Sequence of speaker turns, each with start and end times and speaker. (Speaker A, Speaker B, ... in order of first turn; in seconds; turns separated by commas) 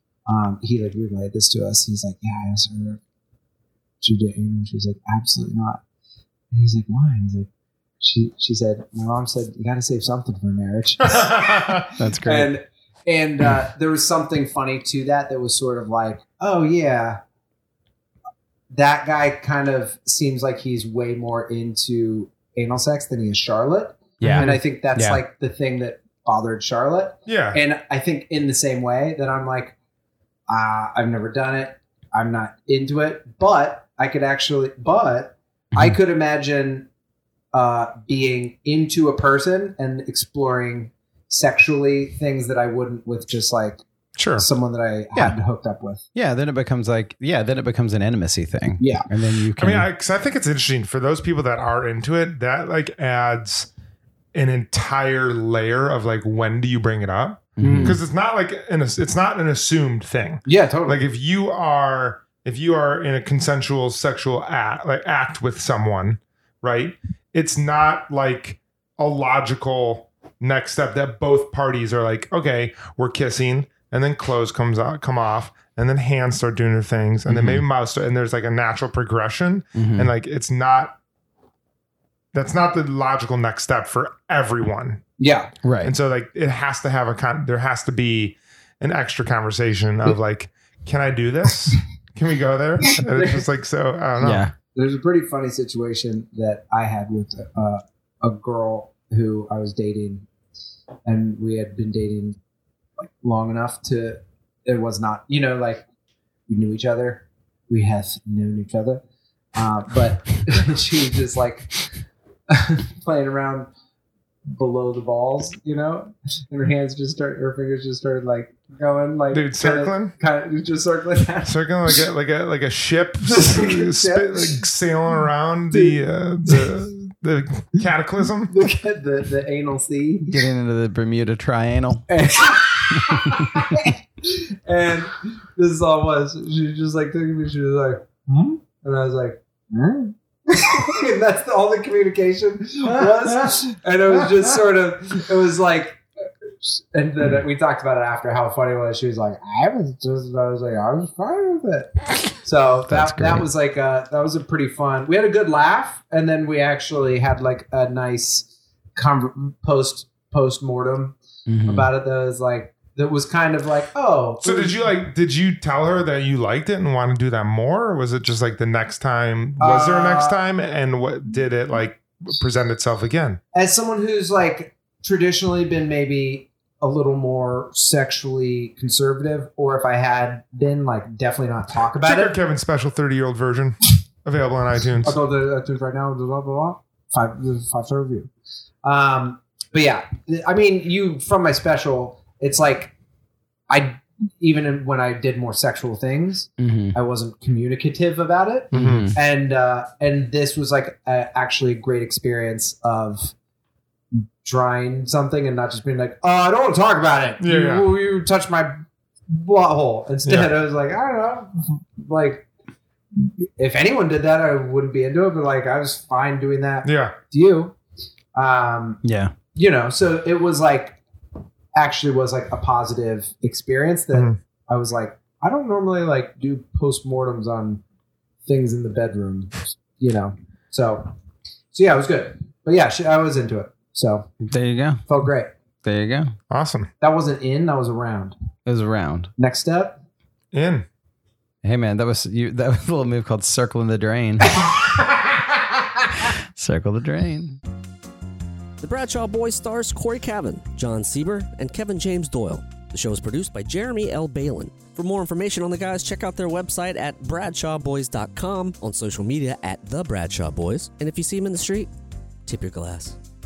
Speaker A: 0.3-3.0, Speaker A: 4.0-5.8, Speaker A: 6.5-7.5, Speaker A: 8.0-17.2, Speaker B: 12.0-12.5, Speaker A: 18.7-29.8, Speaker B: 24.2-25.2, Speaker C: 24.2-24.6, Speaker C: 27.3-27.6, Speaker A: 30.5-36.9, Speaker A: 37.5-43.8, Speaker C: 44.2-44.5, Speaker A: 44.4-46.0, Speaker B: 46.1-49.9, Speaker A: 48.8-49.1, Speaker C: 49.6-53.7, Speaker C: 54.4-81.0, Speaker B: 57.6-58.0, Speaker A: 57.6-58.0, Speaker A: 60.5-61.0, Speaker B: 77.3-77.7, Speaker B: 79.8-80.1, Speaker C: 82.3-85.0, Speaker A: 85.2-85.5, Speaker B: 85.6-85.9, Speaker C: 85.8-94.5, Speaker A: 93.0-93.4, Speaker B: 94.2-94.5, Speaker A: 94.8-100.3, Speaker A: 101.0-102.4, Speaker A: 103.0-105.8, Speaker A: 106.5-109.0, Speaker A: 109.5-111.8, Speaker A: 112.5-113.7, Speaker A: 114.5-121.6, Speaker C: 119.3-120.2, Speaker C: 121.5-128.6, Speaker A: 123.2-124.5, Speaker A: 125.7-126.0, Speaker A: 128.5-130.4, Speaker B: 130.3-132.1, Speaker A: 132.1-146.0, Speaker B: 133.0-133.6, Speaker A: 146.6-164.8, Speaker B: 152.9-153.5, Speaker B: 161.5-161.9, Speaker C: 164.4-173.4, Speaker A: 169.6-170.4, Speaker A: 173.5-182.3, Speaker C: 182.0-185.2, Speaker A: 185.0-188.3, Speaker A: 188.8-192.9, Speaker A: 193.7-203.3, Speaker B: 196.6-197.0, Speaker B: 198.7-199.2, Speaker C: 198.7-199.1, Speaker A: 204.1-208.8, Speaker C: 207.4-207.9, Speaker A: 209.3-212.5, Speaker C: 210.3-210.5, Speaker A: 213.2-217.8, Speaker C: 216.8-217.2, Speaker A: 218.3-219.0, Speaker B: 219.0-219.3, Speaker A: 219.5-221.0, Speaker A: 221.7-227.8, Speaker A: 228.4-231.1, Speaker A: 231.7-234.3, Speaker B: 234.4-235.1, Speaker A: 235.1-235.5, Speaker B: 235.8-236.3, Speaker C: 236.5-236.9, Speaker A: 237.0-238.3, Speaker B: 238.7-239.3, Speaker A: 239.4-240.0, Speaker C: 240.5-240.9, Speaker B: 241.6-244.6, Speaker B: 246.3-247.6, Speaker D: 248.8-261.9, Speaker D: 262.5-263.2